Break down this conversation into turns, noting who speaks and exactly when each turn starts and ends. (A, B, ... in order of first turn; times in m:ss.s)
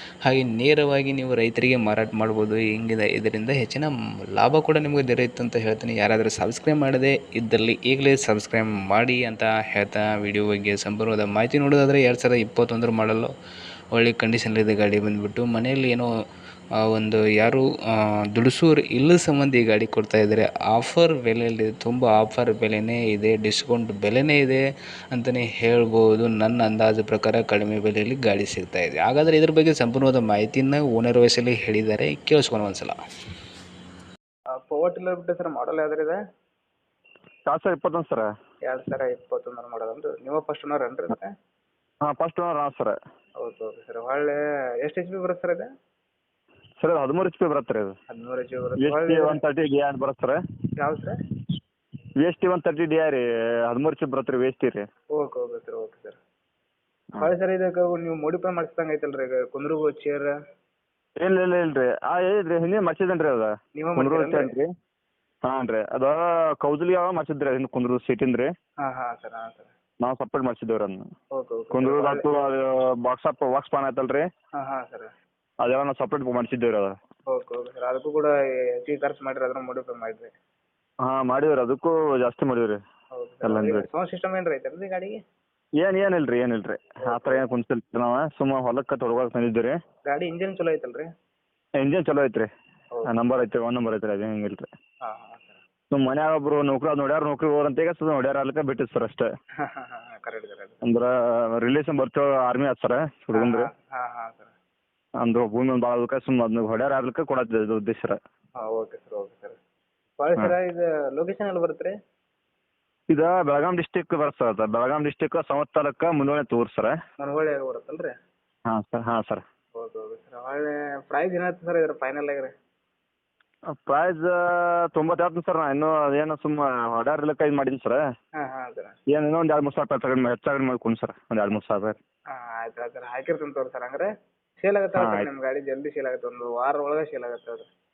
0:00.2-0:13.3 A
0:13.9-0:16.1 A
0:16.8-0:17.7 A
0:18.3-0:24.6 A
0:25.1-0:33.0 A
0:34.5-0:36.2 B
0:37.5-0:38.3 C
0:38.7-0:41.3 B
0:42.0-0:43.0 C
0:43.4-0:45.7 B
0:46.8-0:47.9 C
0:48.1-0:49.4 B
0:48.8-0:50.4 C
0:50.8-0:51.2 B
0:52.2-0:54.9 C
0:55.1-0:56.2 B
0:57.2-1:00.3 B
1:01.2-1:04.7 C
1:03.8-1:04.5 B
1:05.4-1:08.5 C
1:08.8-1:09.7 B
1:10.0-1:11.0 C
1:11.3-1:12.3 B
1:11.7-1:14.3 C
1:14.6-1:15.1 B
1:15.6-1:17.0 C
1:17.3-1:20.3 B
1:21.0-1:22.8 C
1:23.1-1:25.2 B
1:23.4-1:23.9 C
1:25.8-1:29.8 C
1:27.0-1:27.5 B
1:30.1-1:31.1 B
1:31.8-1:32.5 C
1:33.1-1:34.7 C
1:35.0-1:35.6 B
1:35.9-1:39.3 C
1:39.6-1:40.8 B
1:40.8-1:43.7 C
1:43.3-1:44.5 B
1:45.2-1:48.2 C
1:48.6-1:49.6 B
1:50.2-1:52.0 B
1:53.1-1:57.0 C
1:57.2-1:58.1 B
1:58.7-1:59.4 C
1:59.8-2:02.5 B
2:03.7-2:08.0 C
2:08.4-2:09.0 B
2:09.1-2:12.0 C
2:12.3-2:14.1 B
2:14.6-2:17.7 B
2:15.0-2:15.3 C